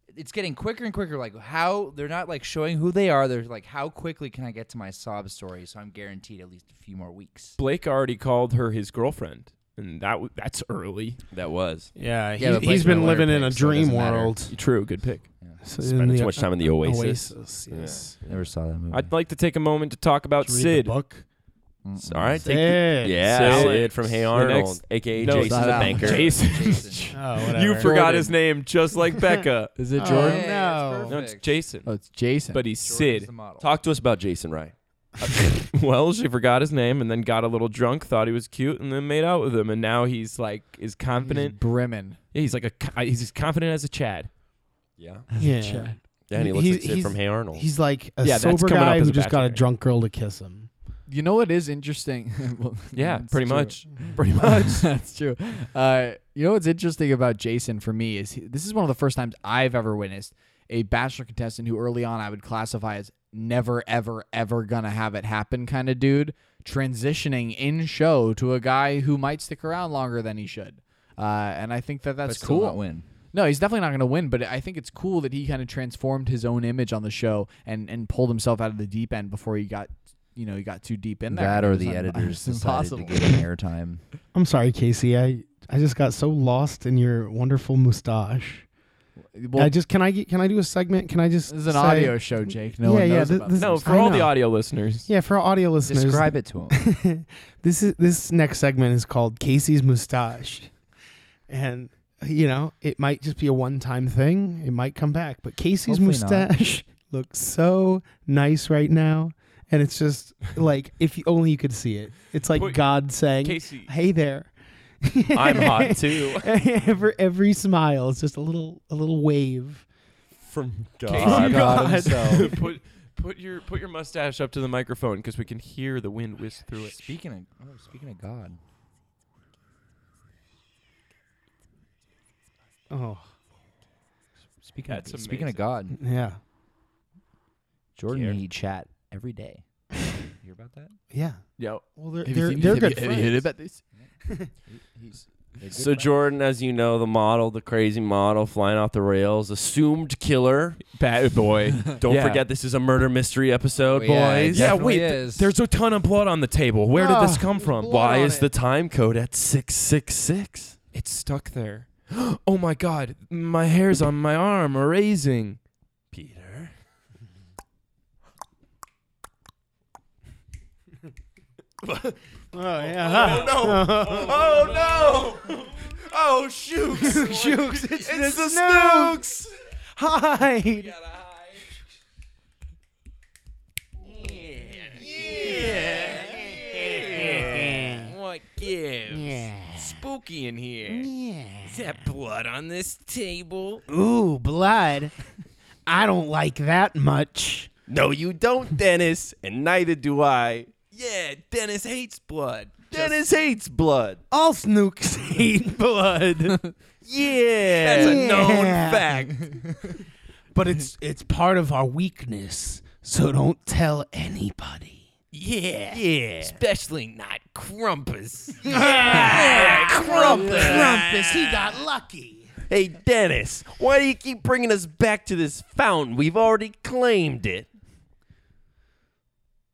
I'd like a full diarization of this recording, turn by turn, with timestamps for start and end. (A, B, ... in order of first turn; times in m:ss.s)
0:00.1-0:07.6 A
0:07.6-0:11.2 B
0:11.3-0:11.9 C
0:12.0-0:14.5 D
0:12.4-0:14.5 A
0:14.5-0:15.3 B
0:15.6-0:18.2 D
0:15.8-0:18.1 C
0:18.2-0:19.1 A
0:18.9-0:21.0 B
0:20.4-0:21.3 D
0:21.8-0:22.4 A
0:22.0-0:26.4 C
0:22.4-0:23.7 D
0:23.2-0:29.7 B
0:25.3-0:26.2 E
0:25.4-0:27.2 A
0:27.1-0:27.9 D
0:27.8-0:28.3 E
0:29.8-0:30.5 E
0:30.0-0:31.2 D
0:30.0-0:31.5 A
0:31.1-0:31.9 B
0:31.8-0:32.6 E
0:32.5-0:33.3 B
0:32.8-0:33.7 A
0:33.6-0:34.7 C
0:35.7-0:41.6 B
0:41.2-0:42.2 E
0:42.3-0:44.3 B
0:45.0-0:45.3 C
0:45.3-0:46.0 E
0:45.4-0:50.7 D
0:46.3-0:47.7 C
0:48.2-0:49.7 B
0:51.1-1:12.8 E
0:52.9-0:54.8 B
1:12.2-1:13.1 A
1:13.3-1:23.4 E
1:21.3-1:24.0 A
1:24.3-1:28.7 D
1:29.3-1:29.7 E
1:29.6-1:34.6 D
1:31.5-1:34.1 E
1:33.6-1:35.1 B
1:35.1-1:40.8 D
1:35.8-1:36.8 A
1:41.5-1:59.9 D
1:45.9-1:46.5 A
1:52.5-1:53.9 B
1:55.3-1:56.5 C
2:00.4-2:01.7 C
2:01.1-2:07.0 B
2:01.1-2:02.5 A
2:01.2-2:02.6 D
2:06.8-2:08.6 A
2:12.9-2:13.3 D
2:14.6-2:16.0 A
2:14.9-2:15.6 B
2:16.0-2:16.4 D
2:18.0-2:19.6 A
2:18.1-2:18.4 B
2:20.4-2:21.0 A
2:21.1-2:23.5 D
2:21.6-2:21.8 B
2:22.2-2:23.8 E
2:24.0-2:26.2 A
2:25.7-2:30.8 C
2:30.9-2:32.4 B
2:31.9-2:34.8 C
2:33.9-2:35.6 A
2:34.5-2:37.9 B
2:37.0-2:38.5 D
2:37.8-2:40.8 C
2:40.9-2:45.6 B
2:46.1-2:46.7 C
2:52.5-2:54.5 D
2:52.8-2:59.5 C
2:53.1-2:53.4 B
2:56.9-2:57.3 B
2:57.0-2:59.2 D
3:00.0-3:00.9 D
3:04.6-3:11.1 B
3:05.0-3:07.0 C
3:07.1-3:08.1 D
3:09.1-3:10.0 D
3:10.9-3:11.9 D
3:11.6-3:13.8 B
3:13.9-3:15.2 D
3:15.9-3:17.7 D
3:17.9-3:20.8 C
3:20.9-3:23.2 B
3:22.9-3:24.2 C
3:24.3-3:26.8 D
3:27.0-3:28.9 C
3:27.7-3:29.6 B
3:27.9-3:29.4 D
3:30.5-3:35.1 D
3:35.3-3:41.8 B
3:35.9-3:36.6 C
3:38.6-3:42.5 D
3:39.2-3:40.9 A
3:39.3-3:41.0 C
3:42.7-3:47.7 C